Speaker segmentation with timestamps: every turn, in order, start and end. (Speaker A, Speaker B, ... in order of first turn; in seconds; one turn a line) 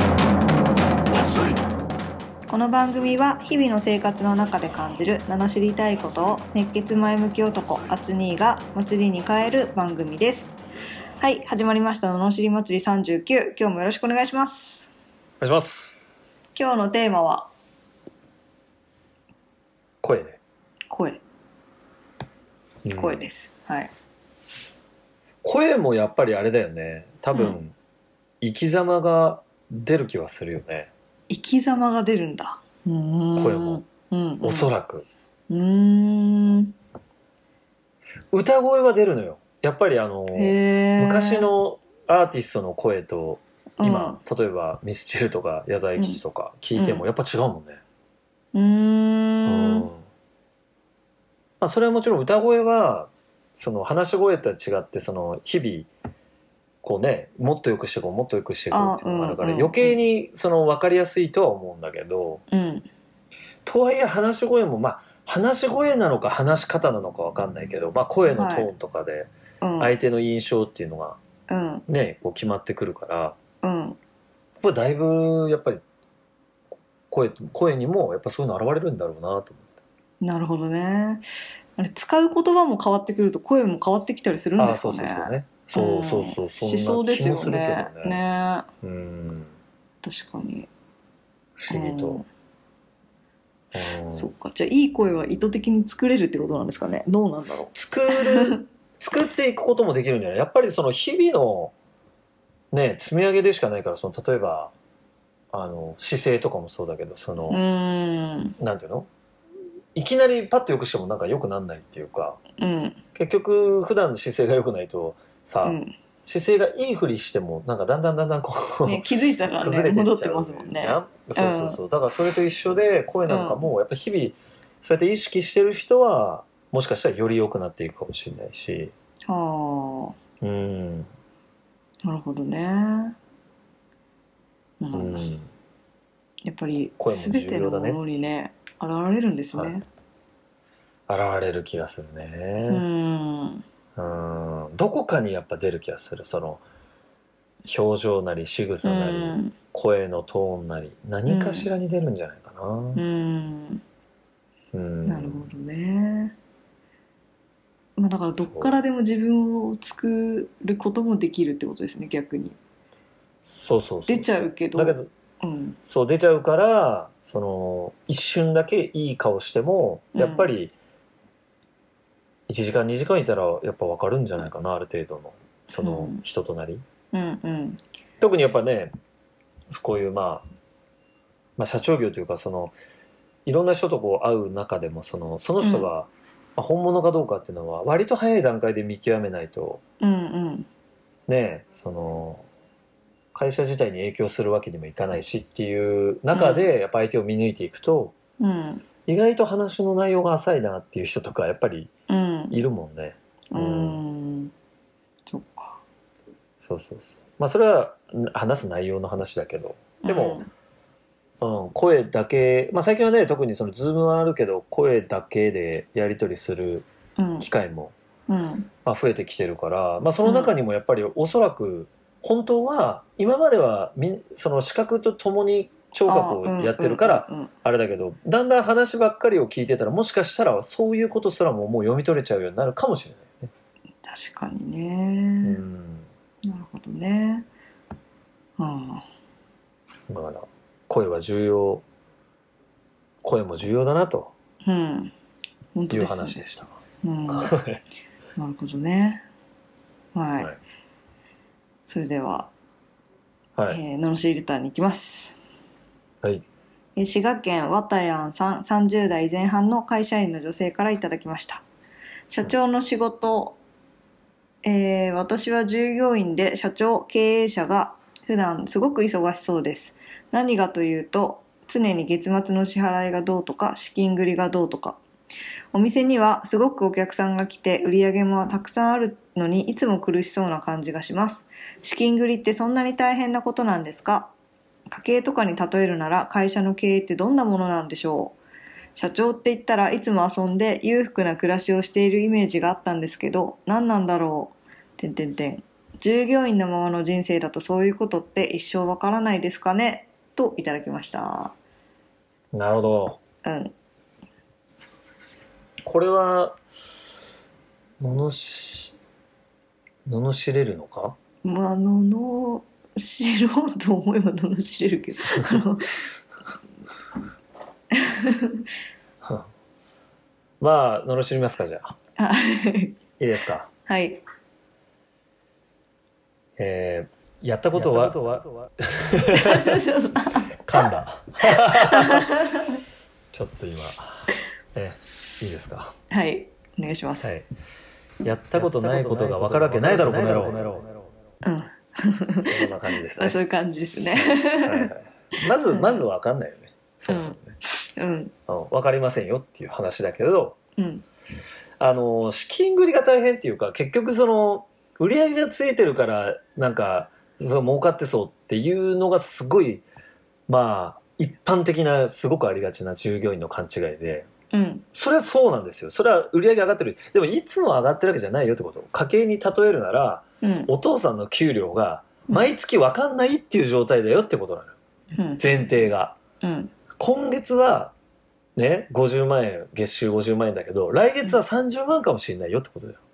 Speaker A: 2.5-10.6
Speaker A: 11.2-14.9
Speaker B: 15.4-16.2
Speaker A: 16.5-17.5
Speaker B: 20.0-20.4
Speaker A: 20.9-21.2
Speaker B: 22.8-23.2
Speaker A: 22.9-23.9
Speaker B: 25.4-27.7
Speaker A: 27.3-27.6
Speaker B: 28.4-30.9
Speaker A: 31.3-34.7
Speaker B: 33.4-33.8
Speaker B: 34.4-35.0
Speaker A: 35.5-36.7
Speaker B: 38.3-47.8
Speaker A: 40.3-41.5
Speaker A: 43.8-44.2
Speaker A: 46.0-46.2
Speaker A: 46.8-47.0
Speaker A: 48.5-49.9
Speaker B: 49.5-50.0
Speaker B: 51.6-55.9
Speaker B: 56.8-62.4
Speaker A: 58.7-60.0
Speaker A: 62.5-62.9
Speaker B: 63.6-71.2
Speaker A: 68.3-68.7
Speaker A: 69.6-69.9
Speaker A: 71.5-71.8
Speaker B: 71.9-73.4
Speaker A: 73.6-74.0
Speaker B: 74.6-75.8
Speaker B: 77.1-79.8
Speaker A: 80.2-88.7
Speaker B: 84.6-88.2
Speaker B: 88.8-89.5
Speaker A: 90.0-90.7
Speaker B: 91.6-92.2
Speaker A: 91.7-92.3
Speaker B: 93.7-94.3
Speaker A: 94.1-98.6
Speaker B: 97.7-101.7
Speaker B: 102.7-104.7
Speaker B: 105.5-107.6
Speaker A: 107.5-108.5
Speaker B: 108.6-109.1
Speaker B: 109.9-112.4
Speaker A: 112.6-113.0
Speaker B: 113.1-128.9
Speaker A: 115.6-116.0
Speaker A: 118.8-121.8
Speaker A: 123.3-123.6
Speaker A: 129.2-130.2
Speaker B: 130.4-131.1
Speaker A: 132.0-133.2
Speaker A: 134.8-135.2
Speaker B: 134.9-135.5
Speaker A: 136.4-139.8
Speaker B: 137.0-138.0
Speaker B: 141.1-142.8
Speaker A: 142.7-143.6
Speaker B: 143.9-146.6
Speaker B: 147.7-153.0
Speaker A: 148.8-149.6
Speaker A: 151.3-151.7
Speaker A: 152.9-153.8
Speaker B: 154.7-155.5
Speaker A: 155.0-156.3
Speaker A: 158.0-162.6
Speaker B: 158.4-158.8
Speaker B: 163.4-165.1
Speaker A: 164.1-165.8
Speaker B: 165.8-170.7
Speaker A: 170.1-170.5
Speaker B: 172.5-176.8
Speaker A: 175.7-176.2
Speaker A: 177.1-177.8
Speaker B: 178.2-178.9
Speaker B: 179.7-180.4
Speaker B: 181.6-182.7
Speaker B: 183.4-189.8
Speaker A: 185.6-185.9
Speaker A: 190.0-190.7
Speaker B: 191.3-192.4
Speaker B: 193.3-198.1
Speaker A: 196.3-196.7
Speaker A: 198.4-198.8
Speaker B: 199.1-201.9
Speaker A: 202.1-202.6
Speaker B: 202.5-204.0
Speaker A: 203.5-204.5
Speaker A: 205.3-205.8
Speaker B: 206.6-210.4
Speaker A: 210.0-210.5
Speaker B: 211.4-216.9
Speaker A: 217.2-217.5
Speaker B: 217.4-217.9
Speaker A: 218.3-218.7
Speaker B: 218.8-233.5
Speaker A: 220.2-220.5
Speaker A: 226.0-227.5
Speaker A: 234.0-235.6
Speaker B: 235.4-236.1
Speaker A: 236.4-237.5
Speaker A: 238.6-239.1
Speaker B: 240.1-241.8
Speaker B: 243.2-244.3
Speaker A: 244.6-245.1
Speaker A: 245.7-246.4
Speaker B: 245.9-247.8
Speaker A: 247.0-247.5
Speaker A: 248.4-249.2
Speaker A: 250.1-250.5
Speaker A: 251.9-252.5
Speaker A: 253.7-255.4
Speaker A: 256.9-261.6
Speaker A: 262.3-263.6
Speaker A: 264.6-275.0
Speaker A: 275.7-284.3
Speaker A: 284.9-288.4
Speaker A: 288.9-301.5
Speaker B: 302.5-303.2
Speaker A: 303.4-303.7
Speaker B: 305.8-306.6
Speaker B: 308.0-308.9
Speaker B: 310.1-311.1
Speaker A: 311.4-316.1
Speaker A: 317.9-318.6
Speaker B: 319.2-319.5
Speaker B: 320.6-321.9
Speaker A: 322.2-323.0
Speaker B: 323.2-323.7
Speaker A: 323.9-324.2
Speaker B: 326.6-329.8
Speaker A: 329.3-330.6
Speaker B: 330.5-332.3
Speaker A: 331.7-332.8
Speaker B: 333.3-335.9
Speaker A: 336.1-337.3
Speaker B: 337.2-337.4
Speaker B: 338.2-340.9
Speaker A: 341.4-346.0
Speaker B: 342.5-343.4
Speaker B: 344.1-347.6
Speaker A: 347.1-348.3
Speaker B: 348.5-350.6
Speaker A: 350.8-351.0
Speaker B: 351.8-359.8
Speaker B: 360.5-364.3
Speaker A: 364.5-364.8
Speaker B: 364.9-374.7
Speaker A: 370.4-370.7
Speaker A: 375.1-375.7
Speaker B: 375.4-376.2
Speaker A: 376.4-376.7
Speaker B: 377.0-377.9
Speaker B: 378.6-383.0